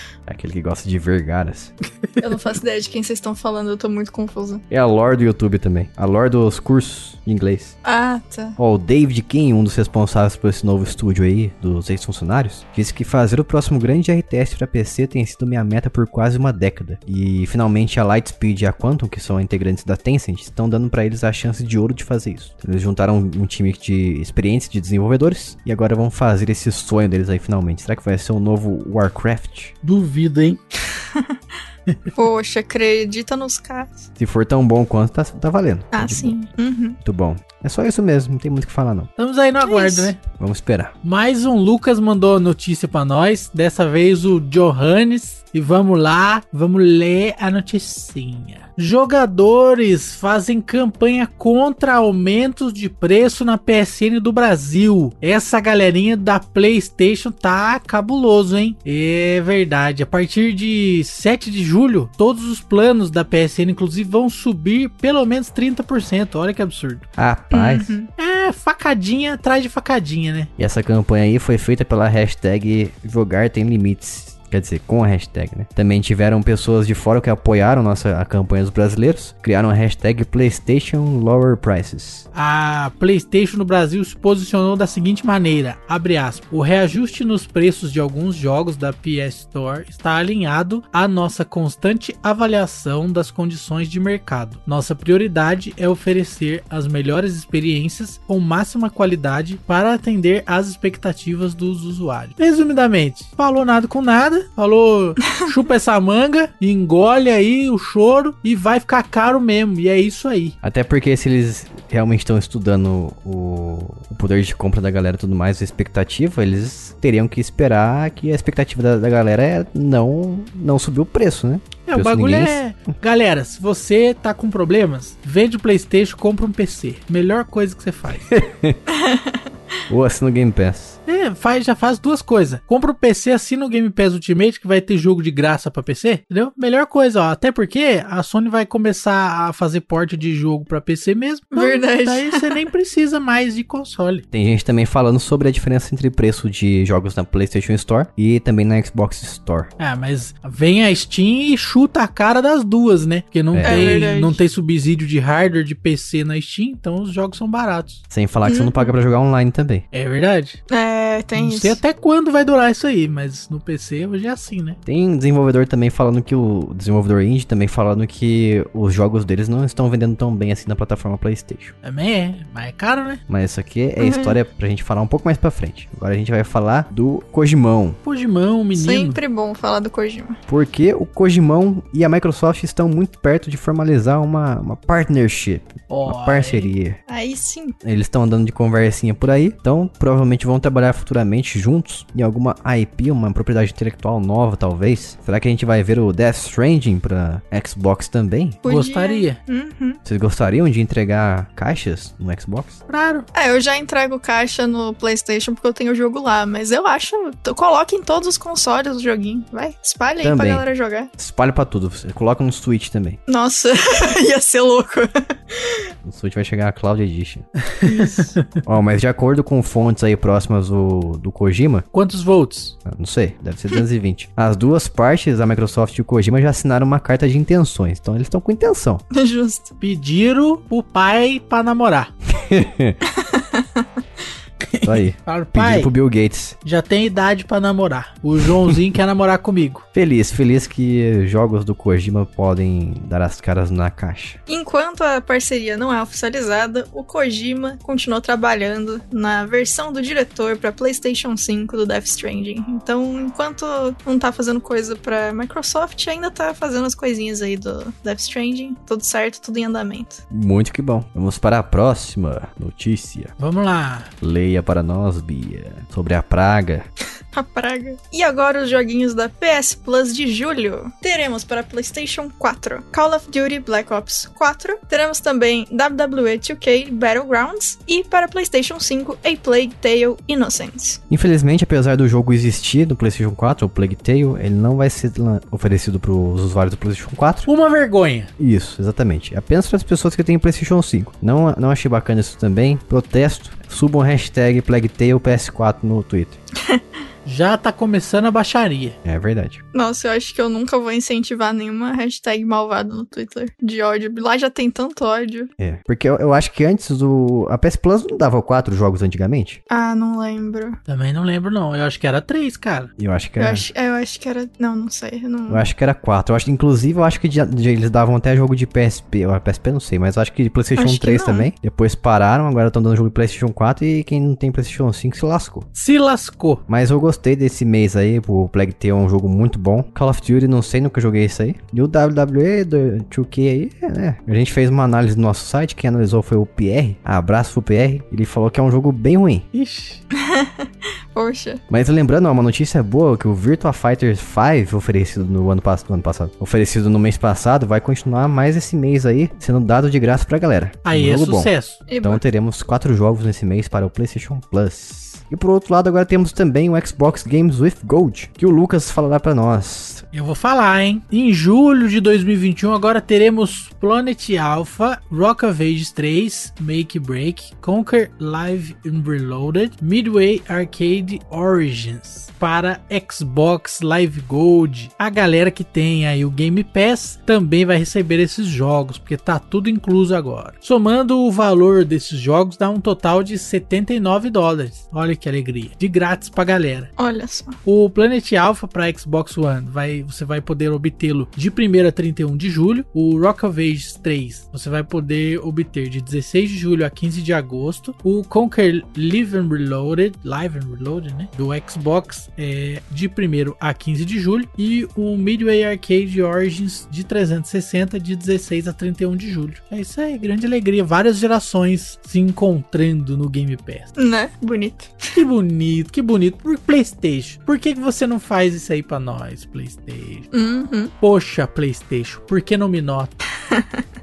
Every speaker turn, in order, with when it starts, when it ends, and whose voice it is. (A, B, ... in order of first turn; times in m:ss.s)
0:00.3-0:01.7 A
0:02.2-0:04.6 B
0:04.7-0:07.8 A
0:07.8-0:08.6 B
0:08.6-0:29.7 A
0:29.8-0:30.6 C
0:30.9-0:31.4 B
0:32.2-0:34.1 B
0:34.2-0:36.4 A
0:35.9-0:37.0 B
0:37.0-0:39.1 A
0:39.2-0:40.2 C
0:39.6-0:40.1 B
0:40.4-0:40.9 A
0:41.0-1:07.0 C
1:07.2-1:08.0 A
1:07.5-1:08.1 B
1:08.2-1:10.5 C
1:10.6-1:22.3 A
1:22.3-1:50.6 C
1:50.6-2:02.6 A
2:01.9-2:08.3 C
2:08.3-2:08.8 A
2:08.9-2:09.4 B
2:09.9-2:11.0 A
2:11.1-2:24.2 C
2:21.5-2:22.6 B
2:24.3-2:29.7 A
2:29.8-2:38.0 C
2:33.5-2:34.1 A
2:33.6-2:34.4 B
2:38.1-2:39.8 A
2:38.4-2:38.9 B
2:39.9-2:40.6 C
2:40.7-2:41.8 B
2:41.3-2:44.8 C
2:44.9-2:51.7 A
2:51.8-2:53.2 C
2:53.3-2:58.0 A
2:54.0-2:54.4 B
2:58.0-2:59.2 C
2:58.7-3:00.4 B
3:00.5-3:07.0 A
3:05.9-3:06.7 C
3:07.1-3:07.7 B
3:07.8-3:18.6 A
3:18.6-3:20.0 B
3:18.6-3:19.4 C
3:20.0-3:22.8 A
3:22.9-3:23.3 C
3:23.3-3:31.1 B
3:30.2-3:30.6 A
3:31.2-3:33.2 A
3:33.3-3:35.9 B
3:36.0-3:37.4 A
3:37.8-3:38.6 C
3:37.8-3:38.4 B
3:38.6-3:41.9 A
3:41.9-3:42.8 C
3:42.8-3:49.0 A
3:49.1-3:49.7 B
3:49.8-3:52.1 C
3:52.3-3:53.0 A
3:53.0-3:53.9 B
3:54.6-3:55.9 C
3:54.8-3:56.6 A
3:56.6-3:59.8 C
4:00.0-4:04.4 A
4:04.5-4:20.2 B
4:20.3-4:23.3 A
4:23.4-4:24.1 C
4:24.2-4:26.9 A
4:27.3-4:41.0 B
4:41.1-4:47.5 A
4:47.4-4:48.3 C
4:48.4-4:56.4 A
4:57.2-4:59.0 C
4:59.0-4:59.6 A
4:59.7-5:05.5 B
5:05.6-5:09.6 A
5:09.7-5:10.8 B
5:10.9-5:12.9 C
5:13.0-5:13.6 A
5:13.4-5:15.6 B
5:15.5-5:25.7 A
5:20.8-5:21.5 B
5:25.7-5:26.6 C
5:26.7-5:39.5 A
5:39.5-5:40.0 C
5:40.1-5:41.6 B
5:41.7-6:00.0 A
5:50.8-5:51.8 C
5:51.9-5:52.2 B
6:00.1-6:26.9 C
6:27.0-6:27.6 B
6:27.6-6:53.9 C
6:54.0-6:55.2 B
6:55.1-7:00.3 C
7:00.3-7:00.9 B
7:01.0-7:03.1 C
7:03.5-7:03.8 B